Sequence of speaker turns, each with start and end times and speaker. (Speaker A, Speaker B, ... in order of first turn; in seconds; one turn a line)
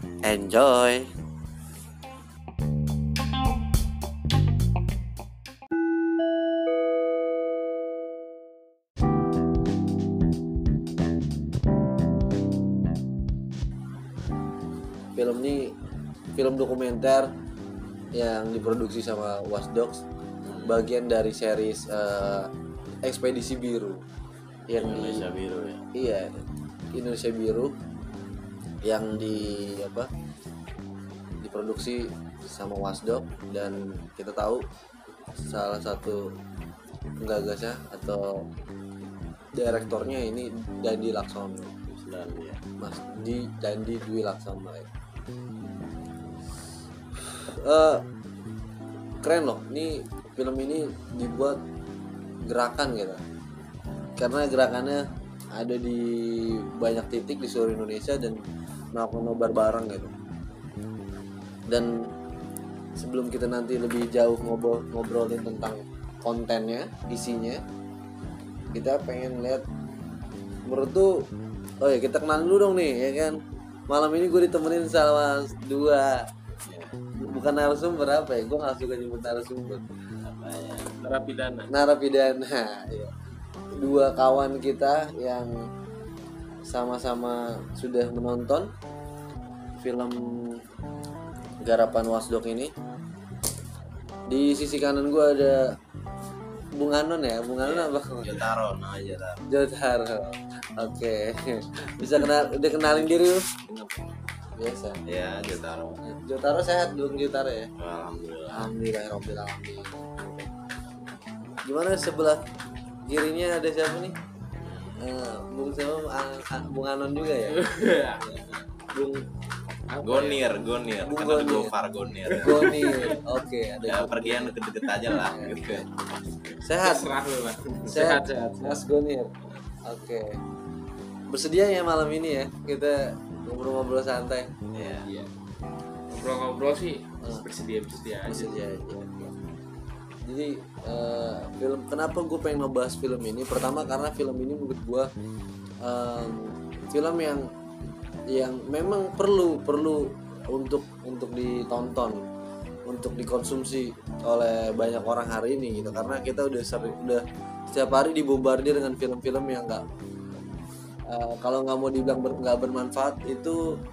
Speaker A: 0.2-1.1
Speaker A: 15.2-15.7
Speaker A: 16.4-17.3
Speaker A: 18.1-20.0
Speaker B: 20.4-20.8
Speaker A: 20.6-22.5
Speaker A: 23.0-24.0
Speaker A: 24.7-25.2
Speaker B: 24.8-25.9
Speaker A: 25.9-26.3
Speaker A: 26.9-27.7
Speaker A: 28.8-30.1
Speaker A: 31.4-34.6
Speaker A: 35.5-36.3
Speaker A: 37.2-38.5
Speaker A: 39.5-41.8
Speaker B: 41.9-42.6
Speaker A: 42.8-44.9
Speaker A: 47.3-48.0
Speaker A: 49.2-51.6
Speaker A: 52.5-53.2
Speaker A: 54.2-58.4
Speaker A: 58.9-60.1
Speaker A: 61.7-62.1
Speaker A: 63.0-67.6
Speaker A: 68.7-69.6
Speaker A: 70.6-71.2
Speaker A: 71.8-76.3
Speaker B: 76.7-77.0
Speaker A: 77.2-79.8
Speaker B: 80.2-80.9
Speaker C: 81.0-81.7
Speaker A: 81.7-83.1
Speaker A: 83.8-85.7
Speaker A: 86.7-88.7
Speaker A: 89.8-90.6
Speaker A: 91.6-92.7
Speaker A: 94.3-95.8
Speaker A: 96.8-98.4
Speaker B: 97.6-99.4
Speaker A: 99.5-103.5
Speaker B: 103.7-104.0
Speaker A: 104.6-105.0
Speaker B: 105.0-106.0
Speaker A: 106.0-107.7
Speaker B: 107.8-108.7
Speaker A: 108.5-110.5
Speaker A: 111.6-112.4
Speaker A: 113.1-114.2
Speaker B: 114.6-115.0
Speaker A: 115.0-117.6
Speaker C: 117.5-118.3
Speaker A: 118.9-119.2
Speaker C: 119.9-120.4
Speaker B: 120.0-122.8
Speaker A: 121.0-121.7
Speaker A: 122.3-124.5
Speaker C: 122.6-123.2
Speaker B: 123.8-126.5
Speaker A: 125.2-125.8
Speaker A: 126.6-127.1
Speaker C: 126.8-128.8
Speaker A: 127.9-129.3
Speaker A: 129.8-130.4
Speaker A: 131.3-134.5
Speaker B: 134.7-135.1
Speaker C: 136.1-138.6
Speaker A: 138.2-139.3
Speaker A: 140.2-145.1
Speaker A: 145.8-147.5
Speaker A: 148.3-152.3
Speaker A: 152.9-159.8
Speaker A: 161.1-163.7